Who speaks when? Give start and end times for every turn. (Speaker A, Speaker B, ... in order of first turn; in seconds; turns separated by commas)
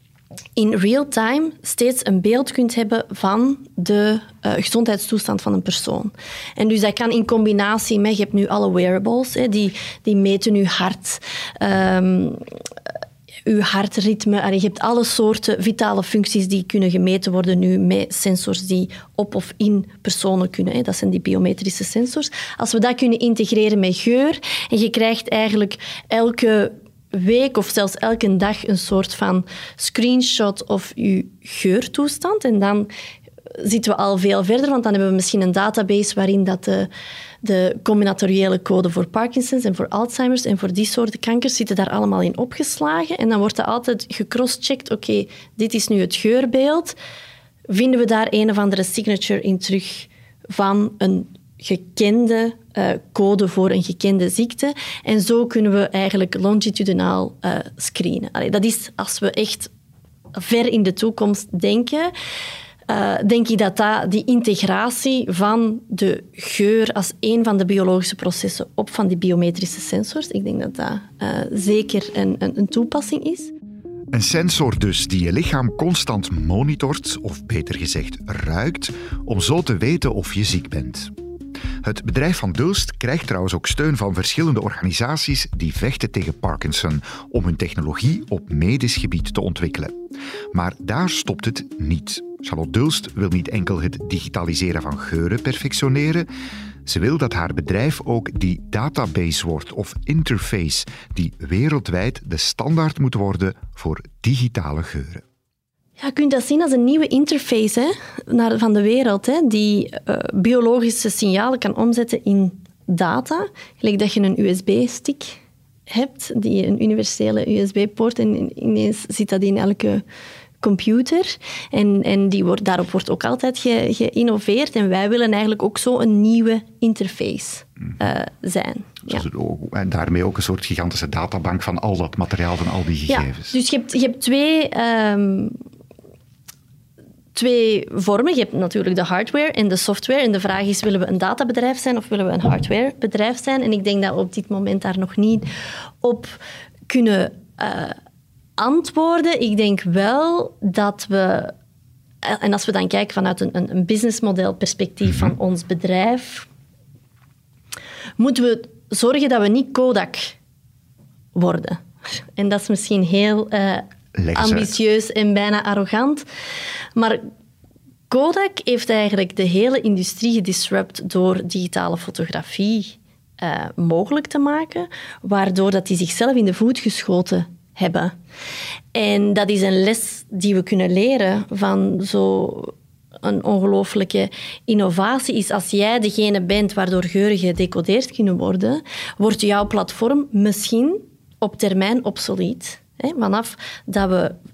Speaker A: 0.6-12.4, Speaker A: 13.4-32.9, Speaker A: 33.6-36.9, Speaker A: 37.4-47.0, Speaker A: 47.7-59.7, Speaker A: 60.3-62.1, Speaker A: 62.9-73.5, Speaker B: 74.1-81.1, Speaker B: 81.8-90.0, Speaker B: 90.5-96.3, Speaker B: 96.8-105.2, Speaker A: 106.0-120.0, Speaker A: 120.6-129.2, Speaker B: 129.1-133.5, Speaker A: 133.1-135.6, Speaker A: 137.3-145.5, Speaker A: 146.0-147.9, Speaker A: 148.6-151.5, Speaker A: 152.2-156.5, Speaker B: 155.1-155.3, Speaker A: 158.2-160.4, Speaker A: 161.3-161.8, Speaker A: 162.3-166.2, Speaker B: 164.1-164.7, Speaker A: 166.9-167.3, Speaker A: 168.1-178.1, Speaker A: 178.9-194.4